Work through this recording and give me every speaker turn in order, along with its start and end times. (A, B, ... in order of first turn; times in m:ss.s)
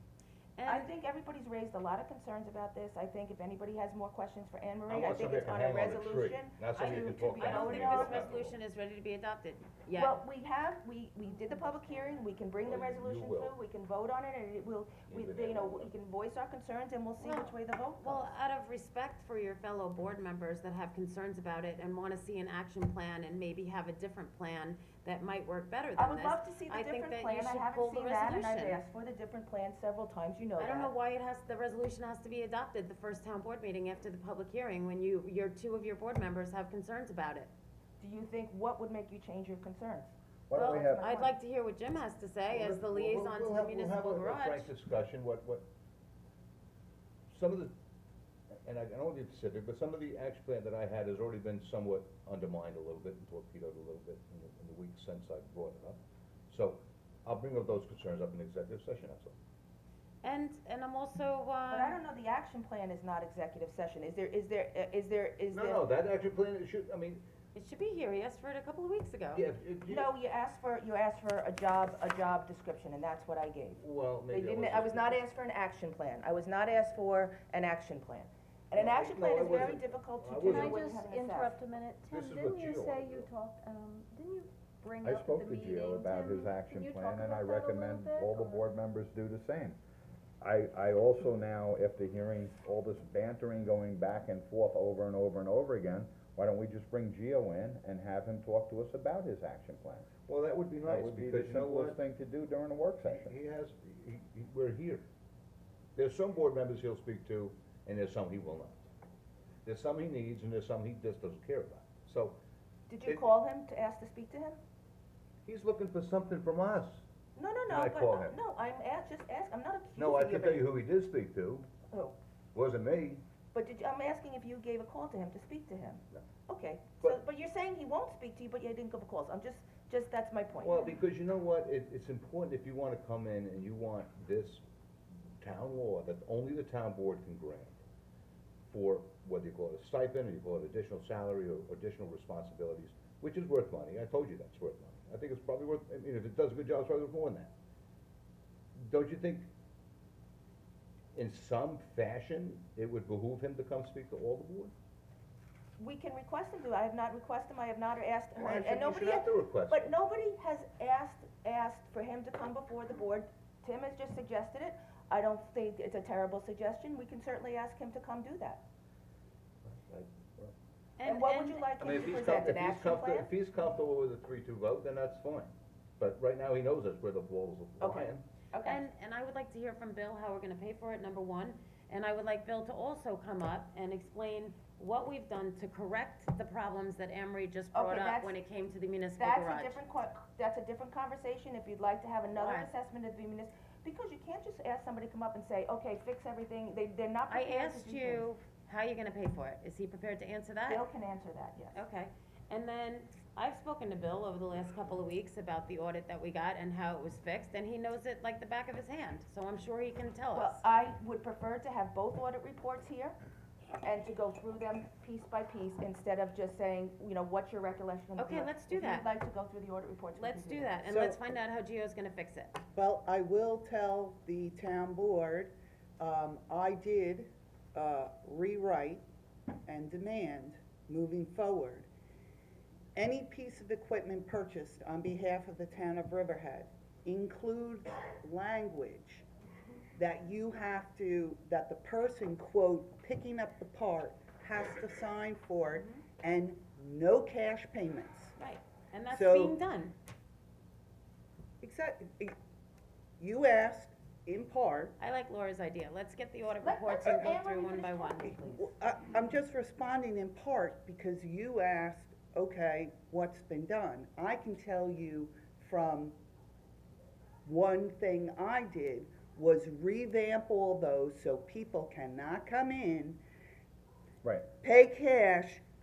0:00.6-0:00.9 A
0:00.6-0:08.4 B
0:04.9-0:08.6 C
0:06.8-0:10.2 A
0:10.0-0:18.3 B
0:11.6-0:12.1 A
0:12.6-0:13.6 C
0:15.1-0:15.9 C
0:17.2-0:28.8 A
0:26.0-0:30.9 B
0:30.6-0:37.5 A
0:38.0-0:41.3 B
0:40.5-0:44.7 A
0:42.5-0:45.6 C
0:47.3-0:47.7 C
0:48.6-0:59.4 C
1:00.2-1:02.0 A
1:01.7-1:05.8 B
1:05.5-1:07.2 C
1:07.5-1:09.4 A
1:09.3-1:10.1 C
1:09.9-1:21.6 B
1:13.8-1:15.2 C
1:18.7-1:20.8 C
1:20.4-1:28.7 D
1:22.1-1:23.3 C
1:25.0-1:29.8 E
1:30.4-1:40.1 E
1:40.3-1:42.0 C
1:40.8-1:43.3 E
1:43.0-1:45.1 C
1:46.0-1:48.9 C
1:49.6-1:52.4 C
1:52.9-1:54.6 B
1:55.4-1:57.0 C
1:57.4-2:00.7 B
1:57.7-1:58.4 C
2:00.0-2:01.7 C
2:01.9-2:02.2 B
2:02.5-2:03.2 C
2:03.5-2:10.9 B
2:10.6-2:14.6 C
2:15.4-2:17.8 C
2:18.7-2:27.5 C
2:28.8-2:29.5 C
2:31.1-2:34.7 C
2:35.8-2:48.6 B
2:38.4-2:39.9 C
2:49.6-2:50.5 C
2:51.0-2:51.7 A
2:51.0-2:53.3 B
2:51.8-2:58.2 C
2:57.8-2:58.8 B
2:58.6-3:09.8 A
3:07.7-3:08.3 B
3:09.2-3:18.2 B
3:12.3-3:12.7 A
3:17.3-3:20.8 A
3:20.7-3:21.8 B
3:21.7-3:30.6 A
3:30.3-3:33.2 B
3:33.8-3:40.8 B
3:38.2-3:39.1 A
3:40.2-3:42.6 A
3:40.8-3:41.2 F
3:42.7-3:49.0 F
3:49.6-3:51.9 F
3:52.9-3:59.2 F
3:59.9-4:08.3 F
4:05.7-4:06.0 A
4:08.4-4:09.9 A
4:09.1-4:09.6 F
4:11.6-4:12.3 F
4:13.2-4:14.9 F
4:15.0-4:18.6 A
4:16.6-4:18.6 B
4:18.6-4:26.2 F
4:27.4-4:33.2 F
4:34.6-4:35.6 F